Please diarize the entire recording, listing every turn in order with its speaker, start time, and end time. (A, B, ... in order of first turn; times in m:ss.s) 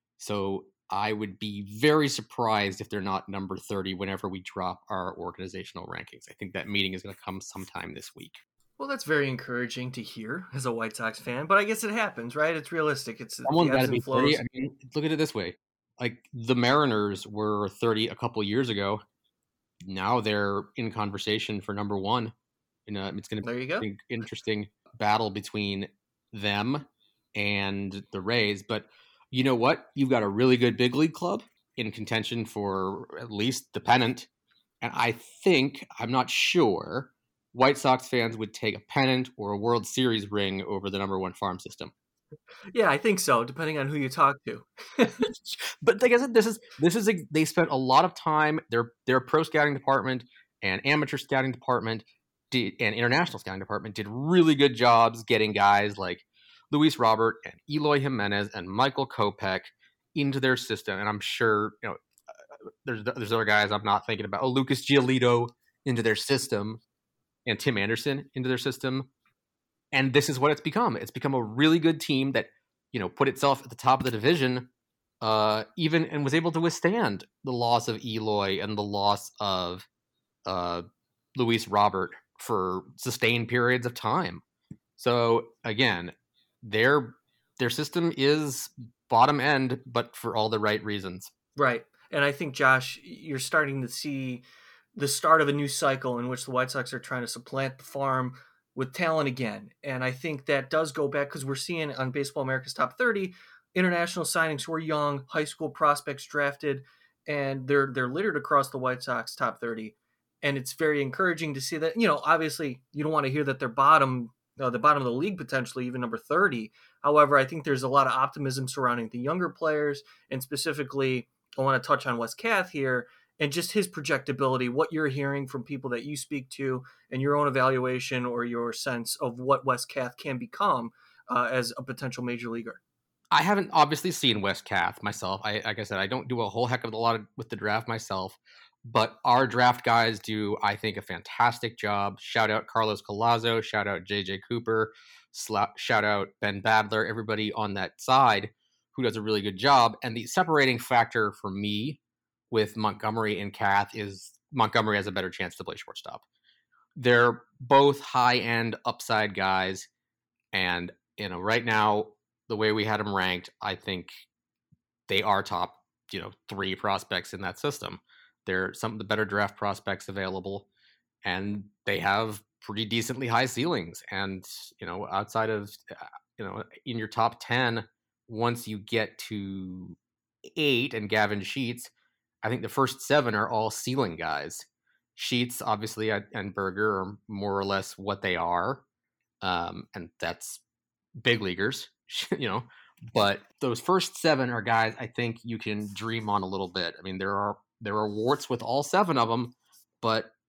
0:00.2-0:08.4 A
0:08.8-0:14.4 B
0:13.5-0:19.0 A
0:19.8-0:22.3 A
0:22.9-0:34.3 A
0:23.4-0:23.9 B
0:34.8-0:41.9 A
0:42.7-0:45.3 B
0:45.5-1:02.0 A
1:02.8-1:06.8 A
1:07.5-1:09.1 A
1:09.9-1:14.7 A
1:15.2-1:19.9 A
1:20.5-1:20.8 A
1:21.4-1:24.4 A
1:25.0-1:31.3 A
1:31.6-1:34.4 B
1:35.0-2:12.8 B
2:13.3-2:32.0 A
2:32.5-2:36.2 A
2:37.0-2:39.9 A
2:40.5-2:44.1 A
2:45.1-2:50.7 A
2:51.2-3:00.0 A
3:00.6-3:01.9 A
3:02.4-3:08.8 A
3:09.4-3:10.6 A
3:11.2-3:20.3 A